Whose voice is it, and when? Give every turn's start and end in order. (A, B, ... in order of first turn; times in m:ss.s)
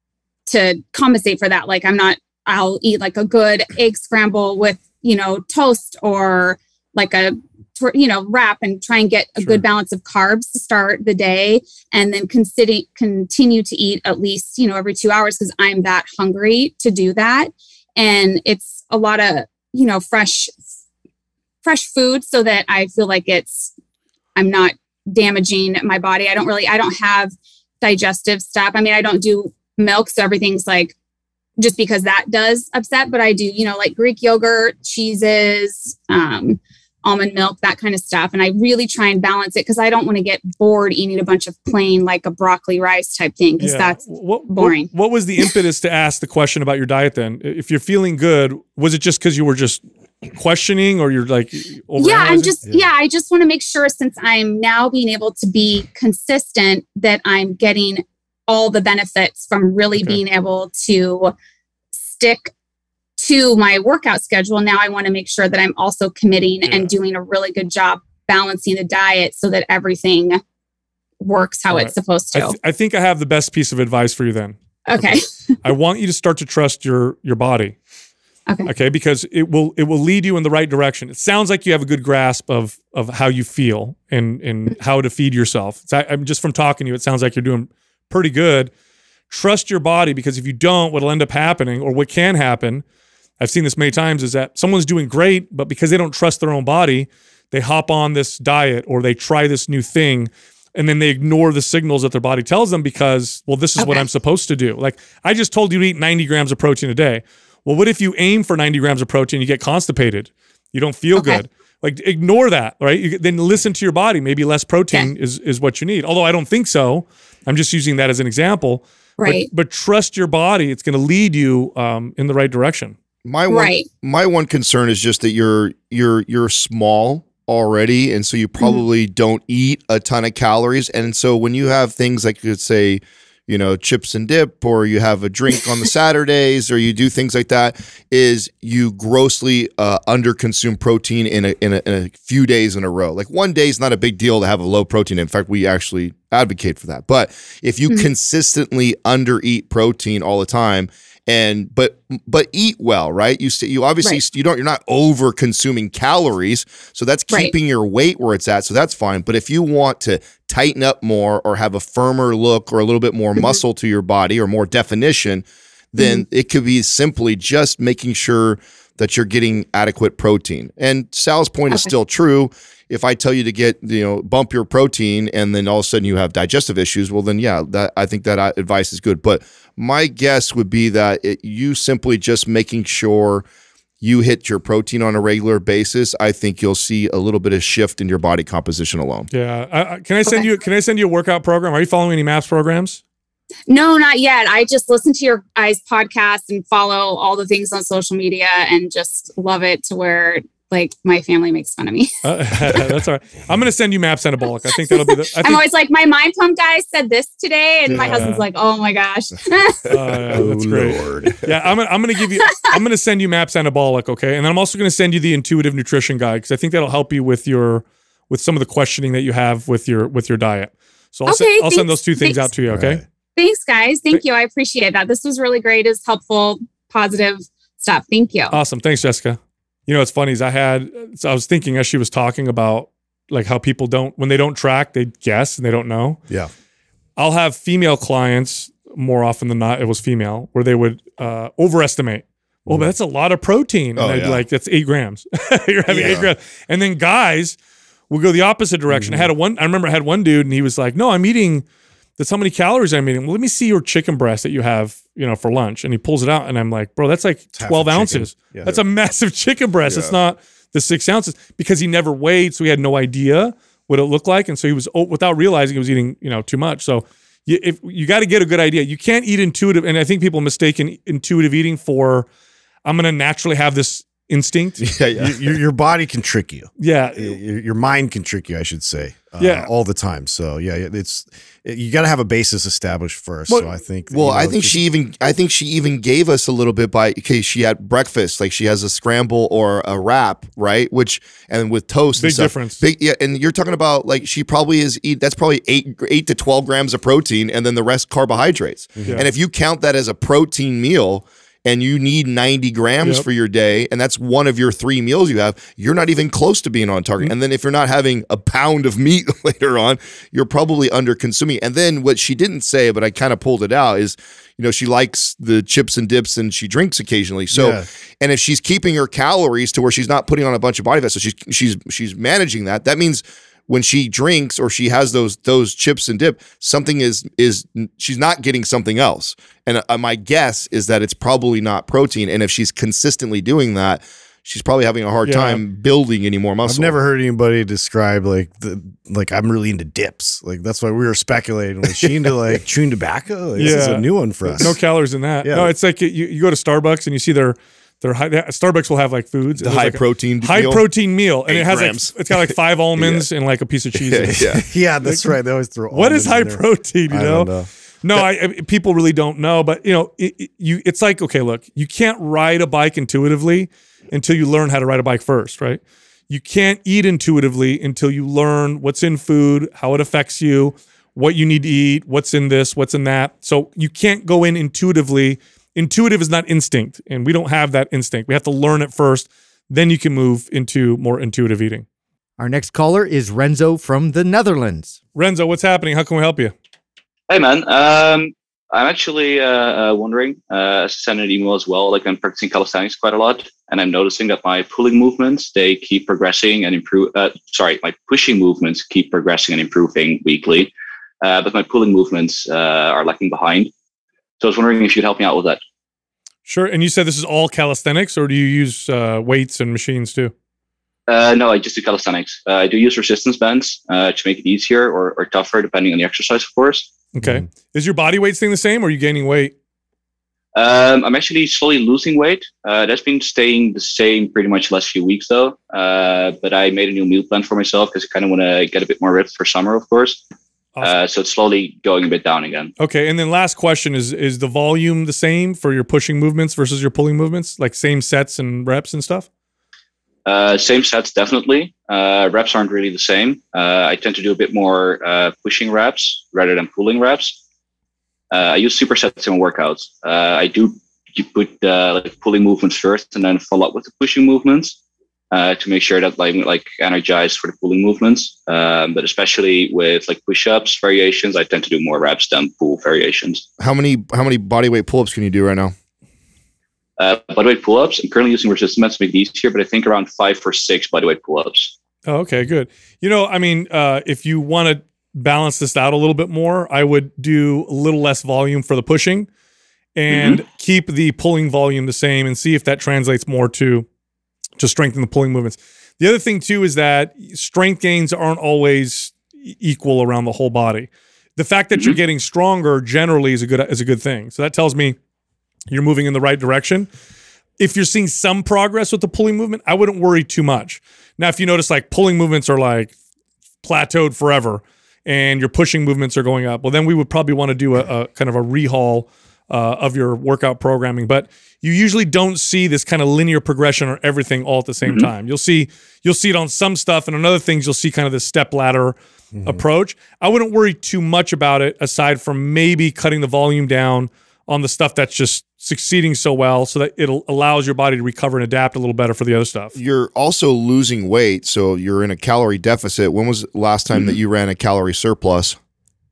0:00.5-0:20.6 A
0:21.6-0:23.7 A
0:24.4-0:30.9 A
0:31.6-0:45.5 A
0:43.6-0:52.6 B
0:52.0-1:01.3 A
0:59.9-1:00.2 B
1:02.1-1:02.5 A
1:03.2-1:10.4 A
1:06.6-1:06.9 B
1:11.2-1:12.6 A
1:11.7-1:17.8 B
1:14.9-1:15.2 A
1:18.6-1:28.7 B
1:29.3-1:32.8 B
1:33.4-2:03.0 B
1:43.8-1:44.0 A
1:51.1-1:51.4 A
1:59.2-1:59.5 A
2:03.2-3:03.4 C
2:03.5-2:03.9 A
2:46.0-2:46.2 A
3:04.0-3:09.3 C
3:09.3-3:13.0 B
3:13.7-3:22.2 A
3:22.2-3:25.6 B
3:24.7-3:29.9 A
3:27.9-3:28.4 B
3:29.9-3:43.0 B
3:30.3-3:31.5 D
3:32.4-3:32.7 A
3:41.3-3:42.5 A
3:42.7-3:43.0 D
3:43.4-3:48.6 A
3:48.5-3:56.2 B
3:57.2-4:07.6 B
4:04.0-4:04.4 C
4:05.9-4:06.3 D
4:06.0-4:06.2 C
4:08.1-4:11.6 B
4:08.9-4:09.3 D
4:12.2-4:32.3 B
4:17.5-4:18.8 D
4:19.8-4:20.1 C
4:32.8-4:34.9 B
4:34.8-4:35.6 C
4:35.2-4:44.8 D
4:36.8-4:37.4 B
4:39.4-4:39.7 B
4:43.5-5:37.0 C
4:52.2-4:52.8 B
4:59.0-4:59.2 D
5:17.5-5:17.9 D
5:35.2-5:35.6 B
5:36.6-5:44.8 D
5:42.0-5:42.3 C
5:43.6-5:54.5 B
5:45.4-5:45.7 D
5:49.6-5:50.8 C
5:51.5-5:53.2 C
5:54.1-5:54.6 C
5:54.3-5:57.7 D
5:55.0-5:55.3 B
5:55.9-5:57.5 B
5:58.0-6:21.8 B
6:22.4-6:24.9 E
6:25.2-6:26.5 B
6:27.3-6:43.7 F
6:44.4-6:45.6 F
6:46.4-6:50.3 B
6:51.1-6:56.9 F
6:57.1-6:59.5 B
6:57.2-6:57.4 D
7:00.6-7:10.2 F
7:10.8-7:12.7 F
7:12.8-7:19.3 B
7:20.2-7:27.4 F
7:28.3-7:34.8 F
7:35.3-7:43.4 F
7:43.6-7:45.7 C
7:47.0-7:51.7 F
7:52.1-7:59.3 B
8:00.0-8:03.8 B
8:00.1-8:00.4 F
8:04.6-8:15.0 B
8:15.7-8:16.9 B
8:17.6-8:22.9 B
8:23.6-8:49.7 B
8:34.8-8:35.1 F
8:39.3-8:39.6 D
8:49.7-8:55.6 C
8:53.9-8:54.2 F